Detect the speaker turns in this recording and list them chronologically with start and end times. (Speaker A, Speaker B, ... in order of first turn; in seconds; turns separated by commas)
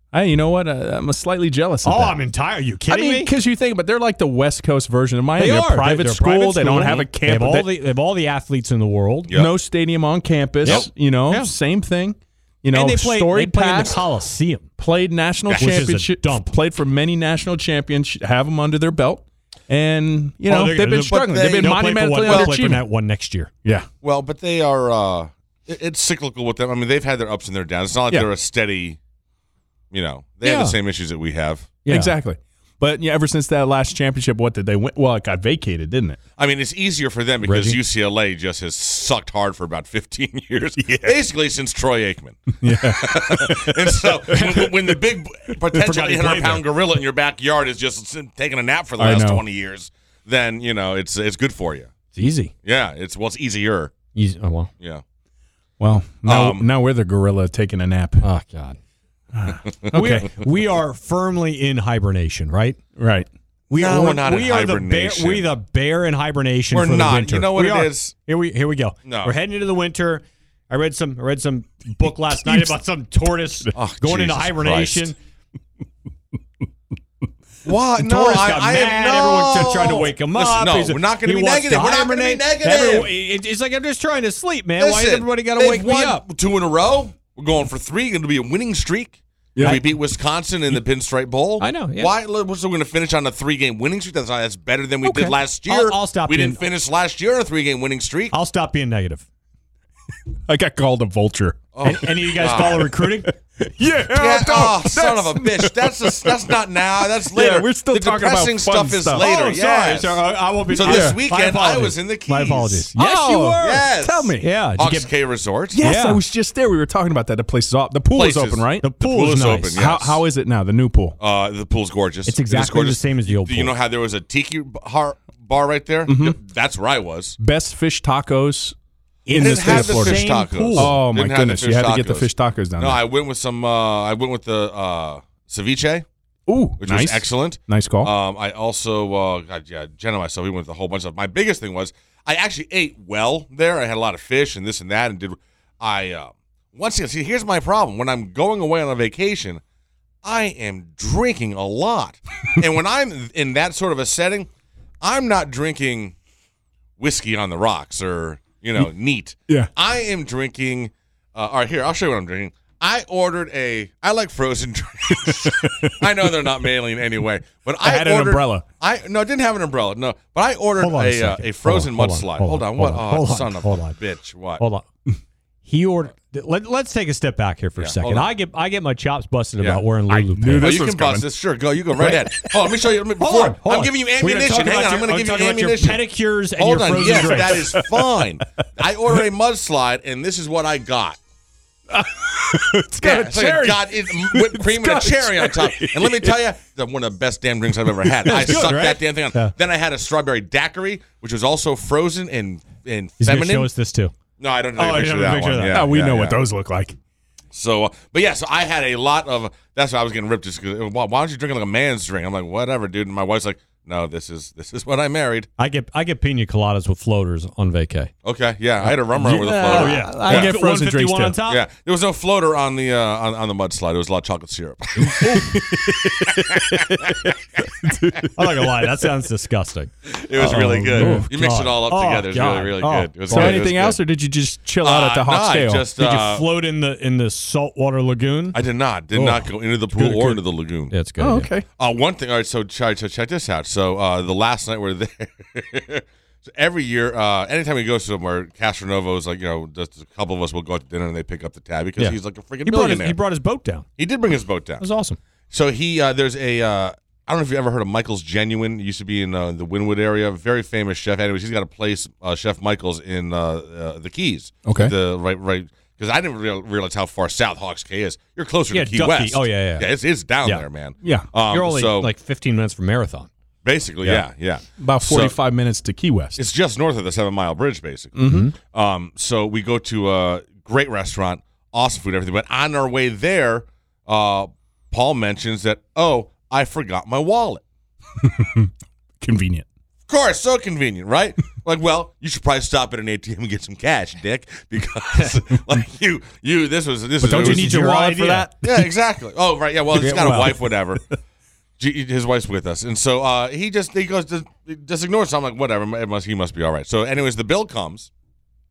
Speaker A: 0.1-2.2, Speaker B: 1.8-3.3, Speaker A: 2.9-7.7, Speaker B: 5.4-9.3, Speaker A: 9.3-14.0, Speaker B: 10.6-11.5, Speaker B: 12.7-14.7, Speaker A: 14.8-22.8, Speaker C: 15.5-15.7, Speaker B: 15.6-16.5, Speaker B: 20.5-23.5, Speaker C: 21.2-22.5, Speaker C: 24.0-29.0, Speaker C: 29.9-31.8, Speaker B: 30.4-30.8, Speaker B: 31.8-32.1, Speaker A: 31.9-36.2, Speaker C: 36.4-51.9, Speaker B: 37.4-37.8, Speaker A: 40.8-41.2, Speaker A: 42.6-44.4, Speaker B: 45.7-46.6, Speaker A: 49.0-49.4, Speaker B: 52.1-52.5, Speaker C: 52.6-53.9, Speaker B: 54.1-54.7, Speaker A: 55.8-58.2, Speaker C: 56.2-56.7, Speaker B: 58.2-58.8, Speaker A: 59.3-60.3, Speaker C: 59.6-60.0, Speaker B: 59.9-62.8, Speaker A: 63.0-63.3, Speaker B: 63.7-75.1, Speaker C: 63.7-65.5, Speaker C: 66.7-68.1, Speaker C: 69.0-69.3, Speaker A: 72.4-72.7, Speaker C: 73.7-75.1, Speaker C: 77.6-83.1, Speaker B: 78.0-86.2, Speaker C: 84.8-98.3, Speaker A: 89.5-89.8, Speaker B: 91.6-92.1, Speaker B: 95.0-96.6, Speaker B: 98.3-99.2, Speaker A: 100.5-101.7, Speaker C: 101.7-102.9, Speaker B: 101.8-103.3, Speaker A: 102.4-109.2, Speaker C: 104.1-110.2, Speaker B: 109.2-113.8, Speaker C: 110.7-112.9, Speaker A: 110.8-111.2, Speaker A: 112.9-114.5, Speaker C: 113.6-115.8, Speaker B: 114.4-115.1, Speaker A: 115.7-118.8, Speaker B: 115.8-116.2, Speaker C: 118.1-120.2, Speaker B: 118.8-119.7, Speaker A: 119.7-121.2, Speaker C: 121.2-127.3, Speaker B: 122.2-123.7, Speaker A: 126.1-126.4, Speaker A: 127.4-128.7, Speaker B: 129.2-130.9, Speaker A: 129.3-133.0, Speaker C: 129.3-136.0, Speaker A: 136.5-138.1, Speaker C: 136.8-149.6, Speaker C: 150.2-154.5, Speaker C: 155.0-156.1, Speaker C: 157.0-174.6, Speaker A: 165.1-166.7, Speaker A: 167.8-168.6, Speaker B: 170.8-174.0, Speaker B: 174.6-174.9, Speaker B: 175.6-180.8, Speaker C: 177.8-178.3, Speaker A: 180.1-181.3, Speaker C: 180.6-186.1, Speaker A: 182.0-182.7, Speaker B: 183.2-187.7, Speaker C: 186.6-191.2, Speaker A: 187.3-188.2, Speaker A: 191.9-196.4, Speaker C: 193.0-203.7, Speaker A: 197.8-198.7, Speaker B: 198.2-199.5, Speaker B: 203.2-204.1, Speaker C: 204.4-206.4, Speaker B: 204.8-205.8, Speaker A: 205.7-206.9, Speaker C: 207.5-215.5, Speaker B: 215.6-218.1, Speaker C: 218.2-220.5, Speaker A: 218.8-221.4, Speaker B: 219.7-221.6, Speaker C: 221.5-227.6, Speaker A: 225.0-228.7, Speaker B: 228.3-233.6, Speaker C: 230.1-234.0, Speaker A: 230.4-231.3, Speaker A: 233.3-235.9, Speaker C: 234.8-236.5, Speaker B: 236.0-238.6, Speaker C: 238.5-240.9, Speaker A: 239.1-240.4, Speaker B: 240.9-241.5, Speaker A: 241.2-241.7, Speaker C: 241.8-253.2, Speaker B: 252.0-253.8, Speaker C: 254.0-254.8, Speaker B: 254.8-255.2, Speaker C: 255.5-272.1, Speaker A: 264.6-264.9, Speaker B: 268.7-269.9, Speaker A: 271.0-271.3, Speaker B: 271.5-273.3, Speaker C: 273.6-275.4, Speaker A: 274.8-276.4, Speaker C: 276.4-287.6, Speaker A: 278.1-278.5, Speaker B: 278.2-278.5, Speaker A: 288.2-289.6, Speaker C: 290.1-297.8, Speaker A: 297.2-298.9, Speaker B: 297.4-298.5, Speaker C: 298.6-301.0, Speaker B: 299.9-300.6, Speaker C: 301.8-308.1